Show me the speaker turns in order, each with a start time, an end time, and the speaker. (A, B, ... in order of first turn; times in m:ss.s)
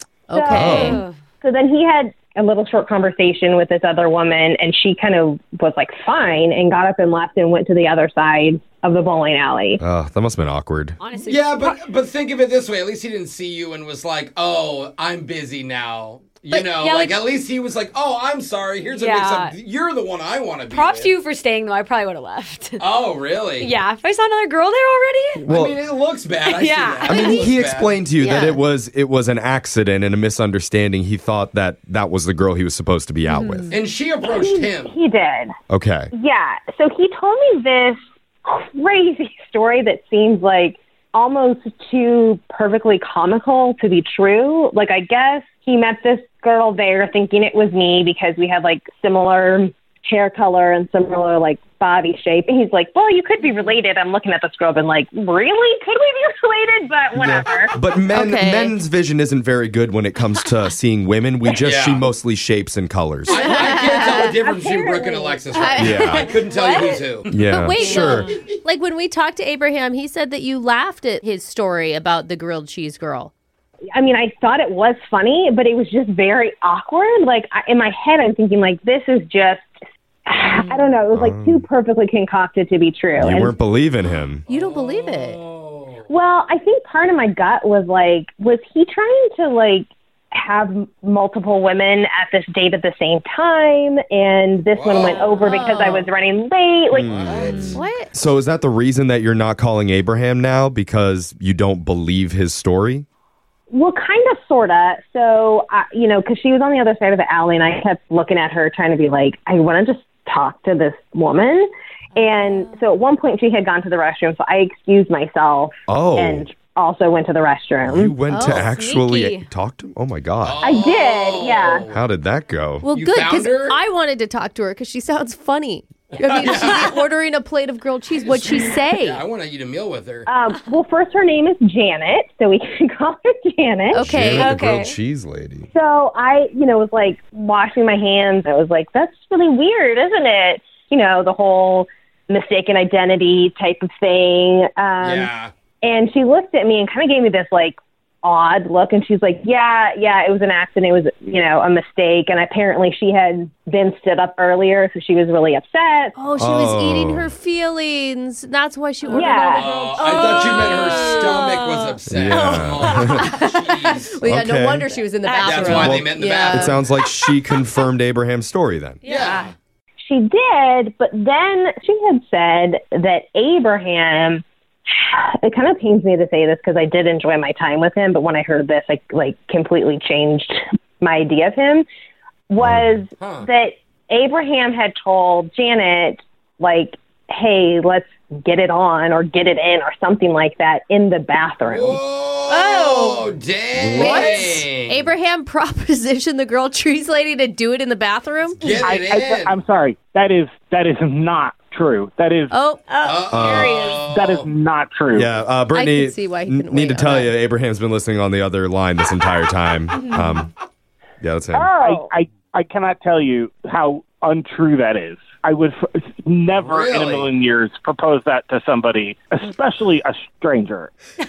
0:00.3-0:01.0 A
0:00.3-0:00.9 B
0:00.5-0:01.0 C
0:00.8-0:01.1 D
0:01.4-0:09.8 B
0:09.8-0:11.0 C
0:11.0-0:11.8 D
0:11.1-0:21.2 E
0:16.5-0:17.3 D
0:18.9-0:19.6 D
0:20.7-0:22.8 D
0:22.8-0:23.7 E
0:23.6-0:25.4 D
0:25.4-0:25.8 C
0:25.5-0:28.0 E
0:26.4-0:27.4 D
0:27.1-0:33.7 C
0:28.2-0:28.6 A
0:33.3-0:33.6 D
0:33.7-0:34.9 E
0:34.2-0:35.6 B
0:35.7-0:36.1 C
0:36.1-0:57.7 B
0:57.2-1:03.6 C
0:58.1-0:58.8 A
1:01.6-1:02.1 E
1:03.3-1:07.3 E
1:03.4-1:04.3 A
1:03.7-1:05.5 B
1:05.5-1:06.2 A
1:05.8-1:06.3 C
1:06.1-1:07.1 D
1:07.3-1:08.3 C
1:07.3-1:13.3 A
1:07.8-1:08.2 D
1:13.9-1:19.7 B
1:20.3-1:23.6 B
1:21.1-1:21.6 C
1:23.2-1:24.4 C
1:24.5-1:26.1 E
1:24.5-1:25.4 A
1:26.1-1:37.1 B
1:34.7-1:35.9 E
1:35.0-1:36.1 D
1:36.9-1:37.8 E
1:37.0-1:43.1 C
1:37.7-1:38.1 A
1:43.7-1:58.2 B
1:55.9-1:56.5 C
1:57.8-2:00.6 C
1:58.3-1:58.7 A
1:58.4-1:59.5 D
2:00.4-2:02.0 E
2:00.6-2:01.9 B
2:01.9-2:02.9 C
2:02.8-2:09.2 A
2:02.9-2:03.8 E
2:06.2-2:07.0 E
2:08.2-2:10.3 E
2:10.3-2:14.1 B
2:13.9-2:14.6 A
2:14.0-2:15.7 C
2:14.4-2:15.0 D
2:15.7-2:25.3 B
2:25.0-2:25.5 E
2:25.8-2:36.2 B
2:36.2-2:40.4 A
2:36.4-2:37.3 C
2:39.1-2:39.7 B
2:39.1-2:44.2 E
2:39.2-2:43.5 D
2:42.1-2:43.3 C
2:43.3-2:46.8 A
2:44.3-2:44.9 C
2:45.2-2:46.0 D
2:45.4-2:46.9 E
2:45.7-2:49.0 C
2:49.0-2:49.5 D
2:49.0-2:49.5 E
2:50.0-3:01.8 B
3:02.5-3:12.0 B
3:02.6-3:03.0 C
3:03.2-3:03.5 E
3:11.6-3:15.1 E
3:12.5-3:13.2 A
3:13.8-3:14.4 C
3:13.9-3:18.8 A
3:18.6-3:19.6 E
3:18.8-3:22.5 F
3:22.5-3:22.8 A
3:22.9-3:24.0 D
3:23.0-3:24.5 E
3:23.3-3:23.8 C
3:24.0-3:25.3 F
3:25.1-3:30.5 C
3:25.7-3:27.3 A
3:31.2-3:31.7 C
3:31.5-3:40.9 F
3:31.7-3:32.1 B
3:36.6-3:37.3 E